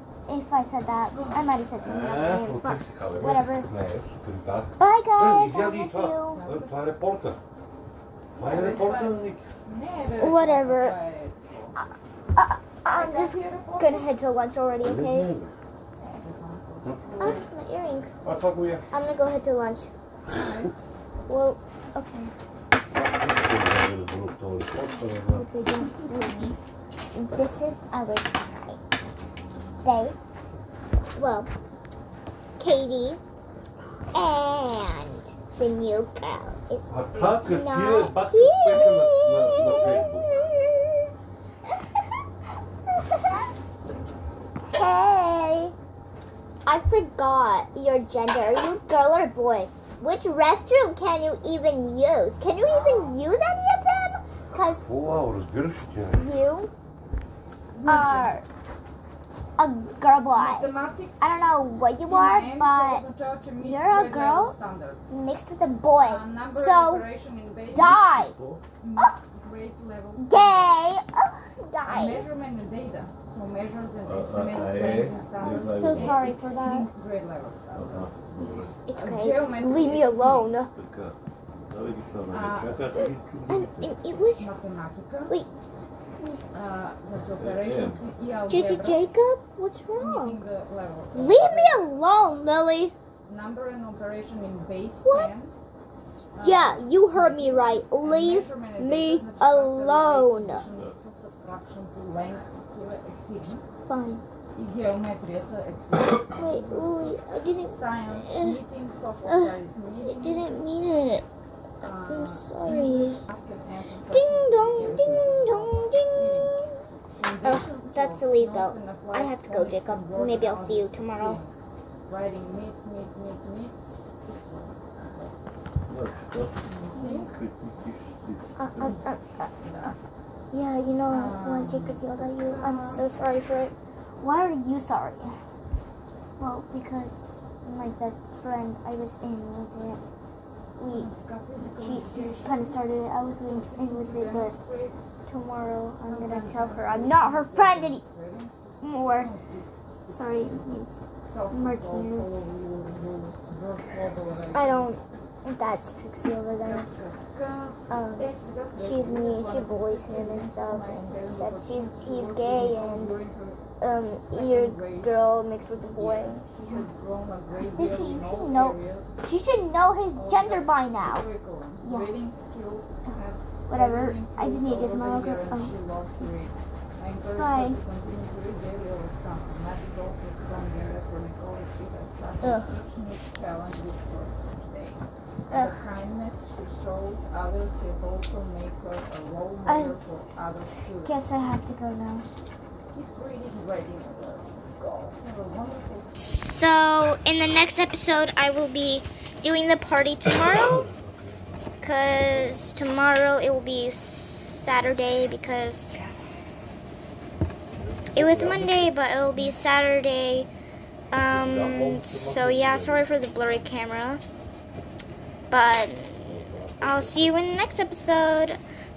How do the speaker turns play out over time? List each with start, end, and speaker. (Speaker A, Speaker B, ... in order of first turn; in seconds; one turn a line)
Speaker A: 0.3-3.7
Speaker B: 1.1-1.4
Speaker C: 1.8-7.4
Speaker A: 4.8-6.4
Speaker B: 6.3-6.7
Speaker C: 8.4-9.4
Speaker B: 8.4-11.7
Speaker A: 10.2-11.0
Speaker A: 11.8-15.3
Speaker B: 12.9-14.1
Speaker C: 14.8-15.5
Speaker B: 15.9-17.4
Speaker C: 16.8-17.4
Speaker A: 17.2-18.1
Speaker C: 18.2-18.9
Speaker A: 18.9-19.9
Speaker B: 20.3-20.7
Speaker A: 21.3-22.3
Speaker C: 22.9-25.4
Speaker A: 25.3-26.6
Speaker B: 25.8-26.5
Speaker A: 27.1-28.8
Speaker A: 29.8-30.1
Speaker A: 31.1-31.5
Speaker A: 32.6-33.2
Speaker A: 34.1-36.9
Speaker C: 36.9-40.3
Speaker A: 37.4-41.1
Speaker A: 41.6-43.5
Speaker A: 44.7-45.7
Speaker A: 46.6-54.9
Speaker B: 52.6-53.2
Speaker C: 54.9-56.3
Speaker A: 56.1-56.7
Speaker B: 57.7-58.4
Speaker A: 57.9-58.4
Speaker A: 59.6-63.0
Speaker B: 60.3-65.1
Speaker A: 63.6-64.5
Speaker A: 65.1-67.0
Speaker B: 66.0-68.0
Speaker A: 67.7-68.4
Speaker C: 67.7-68.6
Speaker B: 68.8-70.8
Speaker A: 69.0-69.2
Speaker A: 70.2-72.2
Speaker B: 71.9-80.5
Speaker C: 74.0-76.2
Speaker A: 75.6-76.9
Speaker C: 77.7-78.7
Speaker A: 78.4-80.7
Speaker C: 80.7-84.0
Speaker B: 82.3-82.9
Speaker A: 83.5-84.5
Speaker B: 84.4-85.4
Speaker B: 86.5-89.1
Speaker C: 87.4-88.0
Speaker A: 88.5-90.4
Speaker B: 89.9-91.9
Speaker A: 91.1-92.9
Speaker B: 93.2-95.5
Speaker A: 95.0-95.3
Speaker B: 96.3-103.6
Speaker A: 96.4-100.7
Speaker A: 103.9-104.2
Speaker B: 104.5-106.3
Speaker C: 106.1-107.2
Speaker A: 106.3-108.6
Speaker B: 107.6-110.5
Speaker A: 109.2-111.2
Speaker B: 111.8-116.6
Speaker A: 112.0-113.2
Speaker A: 114.1-116.8
Speaker C: 114.8-115.3
Speaker B: 117.1-121.5
Speaker A: 117.4-121.4
Speaker B: 122.1-125.3
Speaker C: 125.9-128.9
Speaker B: 126.6-127.3
Speaker A: 126.9-127.3
Speaker A: 128.6-129.9
Speaker B: 129.6-129.9
Speaker A: 130.5-135.4
Speaker B: 131.1-133.0
Speaker A: 136.4-140.0
Speaker A: 140.8-144.6
Speaker B: 140.9-142.9
Speaker B: 143.4-145.3
Speaker A: 145.2-148.0
Speaker B: 146.0-150.7
Speaker A: 148.8-149.3
Speaker A: 150.1-152.3
Speaker B: 151.2-154.9
Speaker A: 154.5-156.9
Speaker B: 156.6-163.6
Speaker A: 157.9-163.2
Speaker A: 163.8-166.9
Speaker B: 164.3-165.1
Speaker B: 165.9-169.2
Speaker A: 167.6-171.2
Speaker B: 170.1-191.1
Speaker A: 171.8-172.2
Speaker A: 173.7-176.3
Speaker A: 177.4-177.8
Speaker A: 182.4-182.8
Speaker A: 185.5-185.9
Speaker A: 189.7-190.0
Speaker A: 191.0-192.3
Speaker B: 192.9-196.6
Speaker A: 196.2-200.9
Speaker C: 200.5-202.7
Speaker A: 201.8-206.0
Speaker C: 207.7-208.9
Speaker A: 208.1-210.5
Speaker A: 211.1-214.2
Speaker C: 211.3-213.1
Speaker A: 215.5-218.6
Speaker C: 216.2-217.4